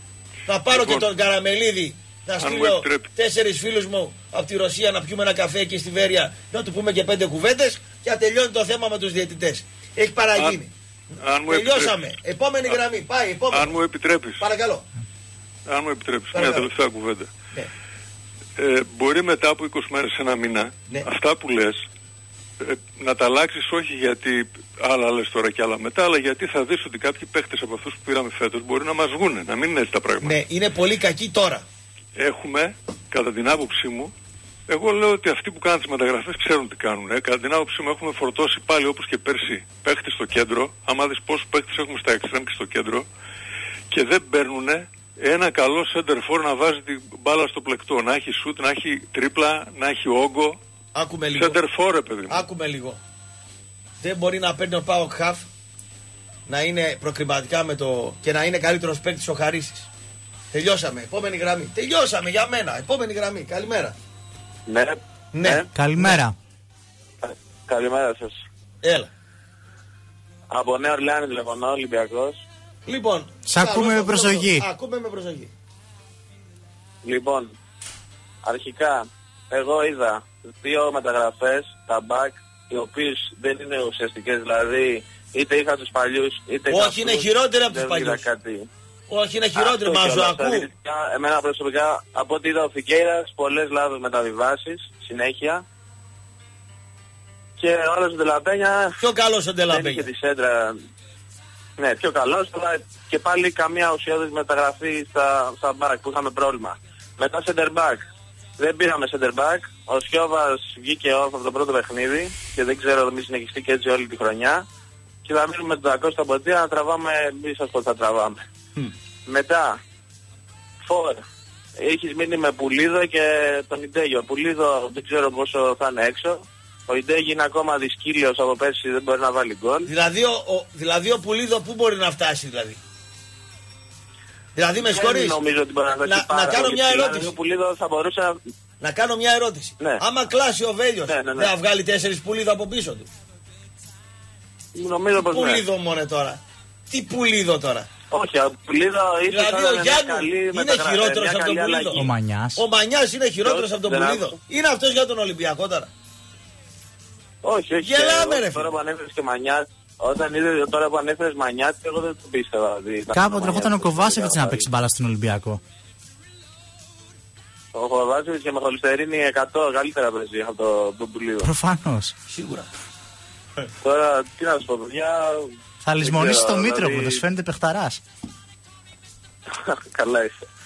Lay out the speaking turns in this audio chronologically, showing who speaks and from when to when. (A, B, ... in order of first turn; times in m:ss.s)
0:00.5-0:10.7 A
0:00.7-0:01.1 B
0:02.4-0:03.1 B
0:11.2-0:12.0 B
0:11.5-0:13.8 A
0:13.5-0:14.4 B
0:14.4-0:14.8 A
0:15.7-0:17.3 B
0:16.3-0:16.7 A
0:18.6-0:21.8 B
0:22.6-0:30.4 B
0:30.2-0:31.6 A
0:32.2-0:34.1 B
0:34.7-0:43.1 B
0:43.9-0:50.6 B
0:50.9-0:51.6 A
0:51.4-0:52.4 B
0:52.3-0:53.0 A
0:54.0-0:55.4 A
0:56.5-0:59.9 A
1:00.5-1:04.0 A
1:04.7-1:05.7 C
1:05.3-1:06.2 A
1:05.7-1:06.4 D
1:07.2-1:08.4 C
1:08.8-1:09.1 A
1:10.5-1:12.4 C
1:12.9-1:15.5 A
1:13.5-1:14.7 D
1:17.0-1:17.5 C
1:18.4-1:28.7 C
1:26.7-1:28.3 A
1:29.1-1:30.7 A
1:29.6-1:35.6 C
1:37.6-1:39.0 C
1:39.0-1:40.1 A
1:39.7-1:40.8 C
1:41.8-1:48.0 C
1:48.6-1:54.6 C
1:55.2-1:58.4 C
1:59.3-1:59.8 C
2:00.9-2:01.2 C
2:01.8-2:09.9 C
2:09.9-2:12.8 A
2:14.6-2:15.4 A
2:14.9-2:18.4 C
2:16.0-2:17.4 A
2:18.8-2:23.1 A
2:21.1-2:21.5 C
2:24.8-2:25.6 C
2:25.2-2:27.9 A
2:28.1-2:32.0 C
2:29.3-2:35.9 A
2:32.0-2:32.6 D
2:33.4-2:34.4 C
2:37.4-2:44.7 C
2:37.8-2:38.7 A
2:43.1-2:45.6 D
2:47.7-2:51.5 C
2:51.4-2:52.1 D
2:52.3-2:52.7 A
2:53.8-2:55.4 C
2:55.8-2:58.0 D
2:56.0-2:57.2 C
2:59.5-3:00.4 C